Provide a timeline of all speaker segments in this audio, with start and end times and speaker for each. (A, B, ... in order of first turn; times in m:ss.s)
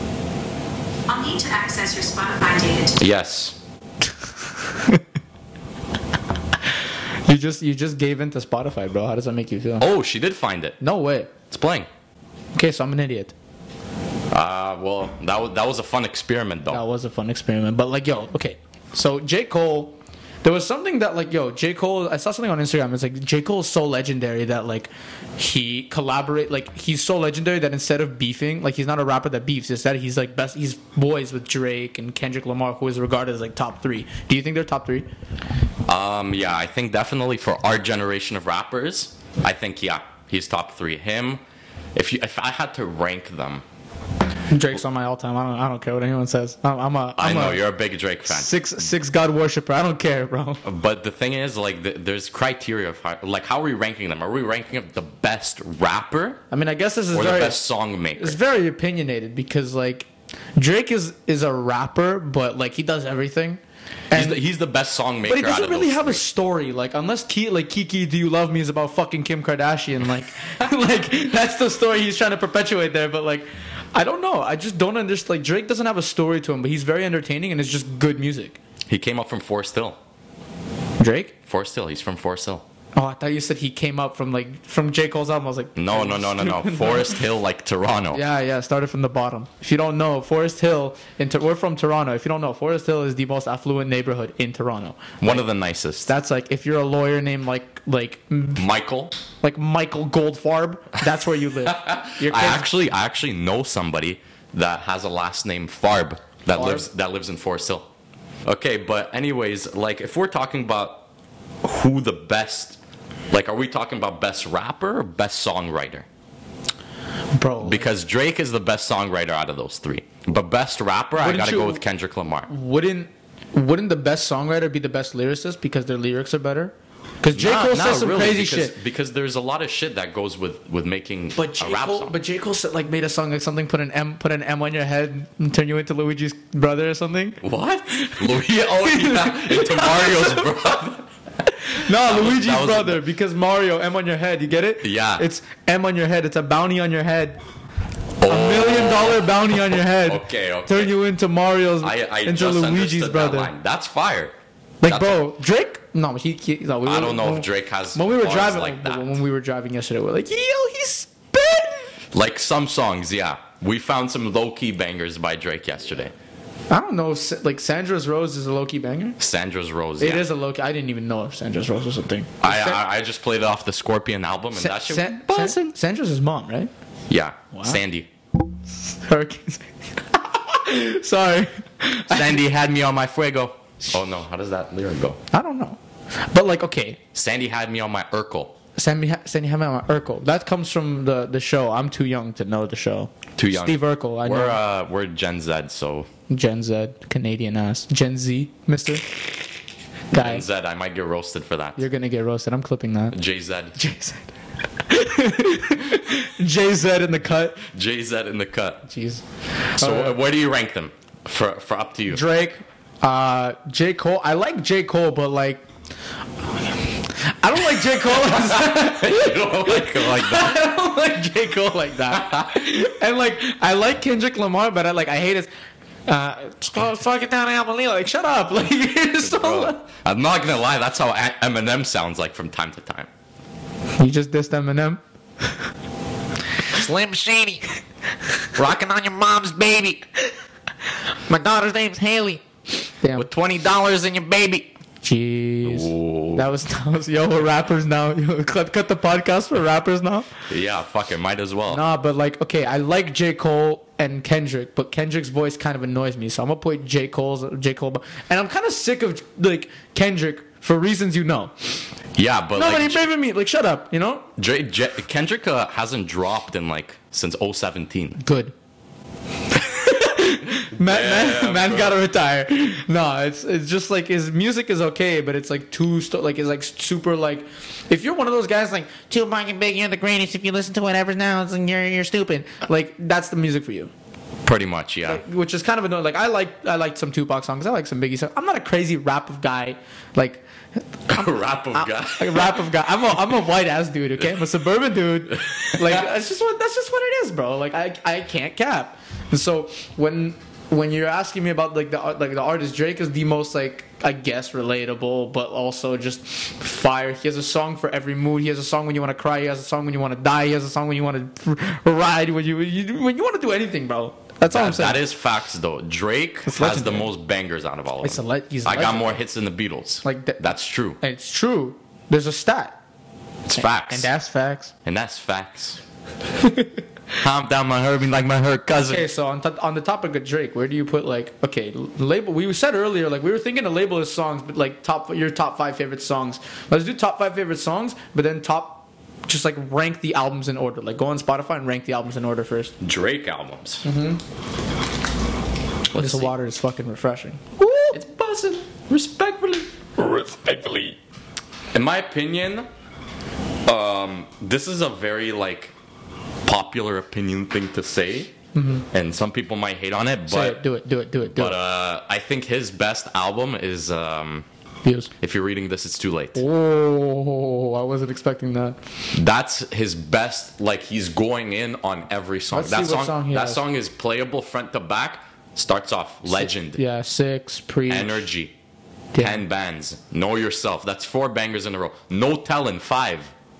0:01.1-0:03.0 A
0:03.0-0:03.6 B
0:04.6-0:05.0 C
0:07.2-0:09.9 C
0:09.8-0:10.8 B
0:10.8-0:11.3 C
0:11.5-0:11.9 B
0:12.5-0:13.3 C
0:14.3-0:16.8 B
0:16.7-0:35.1 C
0:35.9-0:41.4 B
0:41.9-0:43.6 B
0:44.5-0:47.6 C
0:47.2-0:48.6 B
0:48.2-0:50.6 C
0:50.6-0:56.4 B
0:56.5-0:57.6 C
0:57.1-0:58.4 B
0:58.2-1:03.6 C
1:04.1-1:04.4 C
1:04.1-1:06.2 B
1:05.2-1:18.6 C
1:18.9-1:20.0 B
1:21.0-1:21.3 C
1:21.5-1:22.6 B
1:22.9-1:27.2 C
1:25.8-1:28.2 B
1:28.1-1:35.4 C
1:35.2-1:36.1 B
1:36.0-1:38.6 C
1:38.6-1:39.1 B
1:39.4-1:42.7 C
1:41.6-1:47.9 B
1:46.5-1:46.8 C
1:48.4-1:51.1 B
1:51.6-1:52.8 B
1:53.3-1:56.0 B
1:57.4-1:57.9 C
1:57.6-2:02.5 B
2:01.2-2:01.8 C
2:02.5-2:08.8 C
2:07.3-2:12.1 B
2:11.3-2:17.4 C
2:17.4-2:21.0 B
2:18.0-2:20.6 C
2:21.6-2:27.4 C
2:21.9-2:23.0 B
2:24.8-2:25.2 B
2:28.2-2:31.0 B
2:28.2-2:33.5 C
2:31.8-2:34.3 B
2:34.8-2:42.0 C
2:34.8-2:35.3 B
2:36.8-2:39.2 B
2:42.1-2:46.1 B
2:46.7-2:49.2 C
2:49.2-2:50.2 B
2:50.0-2:52.8 C
2:52.4-2:55.6 B
2:54.5-2:56.7 C
2:57.1-2:58.1 B
2:57.5-2:57.8 C
2:58.8-3:02.4 C
3:02.1-3:05.2 B
3:05.3-3:07.0 C
3:07.1-3:08.5 B
3:08.8-3:14.6 C
3:13.4-3:16.1 B
3:16.3-3:19.0 C
3:20.1-3:20.4 C
3:20.1-3:21.8 B
3:21.8-3:23.2 C
3:23.1-3:23.7 B
3:23.7-3:24.3 C
3:24.8-3:27.6 C
3:27.7-3:28.8 B
3:28.9-3:29.2 C
3:29.8-3:32.2 B
3:29.8-3:30.2 C
3:32.1-3:35.6 C
3:37.1-3:45.5 C
3:37.8-3:40.7 B
3:42.0-3:42.5 B
3:46.1-3:49.8 C
3:49.2-3:53.1 B
3:54.0-3:55.0 C
3:56.8-3:57.6 D
3:58.6-4:00.0 D
4:01.3-4:02.2 D
4:01.3-4:02.4 C
4:03.0-4:03.3 C
4:03.2-4:04.2 B
4:03.8-4:04.6 D
4:05.0-4:10.4 C
4:05.6-4:06.5 B
4:10.5-4:11.8 B
4:11.7-4:21.5 C
4:22.2-4:23.0 B
4:22.5-4:24.2 C
4:24.4-4:28.2 B
4:28.2-4:28.5 C
4:29.6-4:43.9 C
4:30.8-4:32.0 B
4:44.4-4:45.2 B
4:45.0-5:15.0 C
4:51.1-4:52.6 B
5:14.5-5:21.0 B
5:16.4-5:17.1 C
5:18.0-5:19.2 C
5:20.0-5:22.8 C
5:23.4-5:24.1 B
5:23.6-5:24.7 C
5:24.8-5:25.8 B
5:27.2-5:29.0 B
5:28.8-5:42.7 C
5:42.8-5:43.8 B
5:43.8-5:44.2 C
5:45.9-5:46.3 B
5:45.9-5:47.9 C
5:47.6-5:51.0 B
5:51.7-5:52.7 B
5:53.6-5:55.7 B
5:56.4-5:58.3 B
5:58.5-5:58.8 C
5:58.9-6:00.6 B
6:00.3-6:01.6 C
6:01.3-6:04.4 B
6:04.8-6:05.1 C
6:05.2-6:06.4 B
6:06.4-6:08.8 C
6:09.1-6:16.8 B
6:12.5-6:13.6 C
6:16.3-6:18.2 C
6:17.9-6:18.5 B
6:19.1-6:19.4 C
6:19.2-6:23.3 B